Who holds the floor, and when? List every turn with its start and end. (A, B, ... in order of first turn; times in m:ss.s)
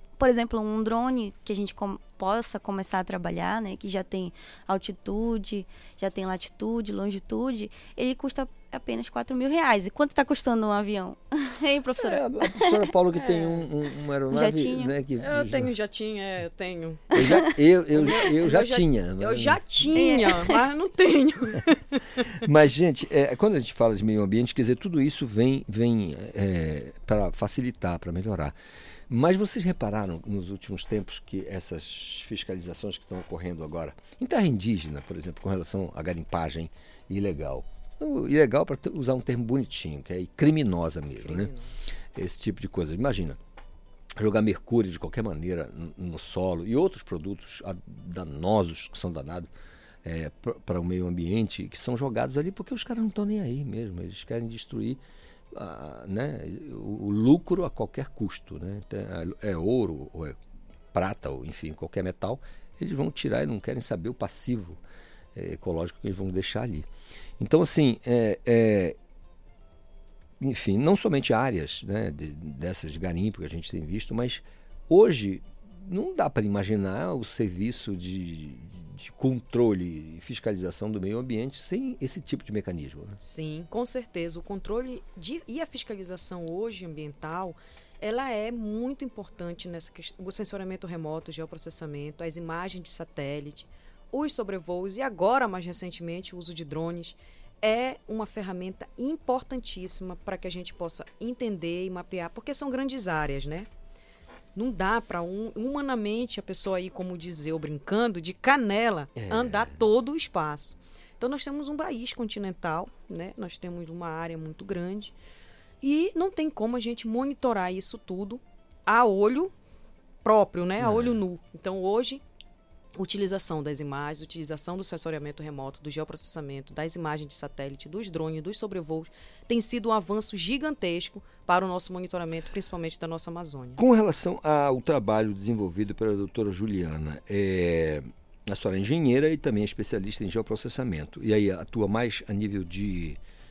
0:00.2-0:12.7 A
0:12.0-0:15.7 B
0:13.2-0:13.6 C
0:14.3-0:14.9 A
0:15.2-0:17.0 C
0:17.1-0:19.7 B
0:17.2-0:17.5 A
0:17.9-0:21.8 C
0:20.0-0:20.6 A
0:22.4-0:28.6 B
0:29.1-0:41.5 B
0:41.2-0:41.8 C
0:42.2-0:43.4 B
0:44.2-0:49.5 B
0:50.0-0:55.0 B
0:55.5-1:00.4 B
1:00.9-1:04.8 B
1:05.4-1:06.9 B
1:07.4-1:09.0 B
1:10.4-1:23.2 B
1:23.2-1:43.7 C
1:44.6-1:55.2 C
1:49.2-1:49.8 B
1:55.8-1:59.5 C
2:00.2-2:02.2 C
2:00.8-2:01.2 B
2:03.0-2:13.8 C
2:13.8-2:23.2 B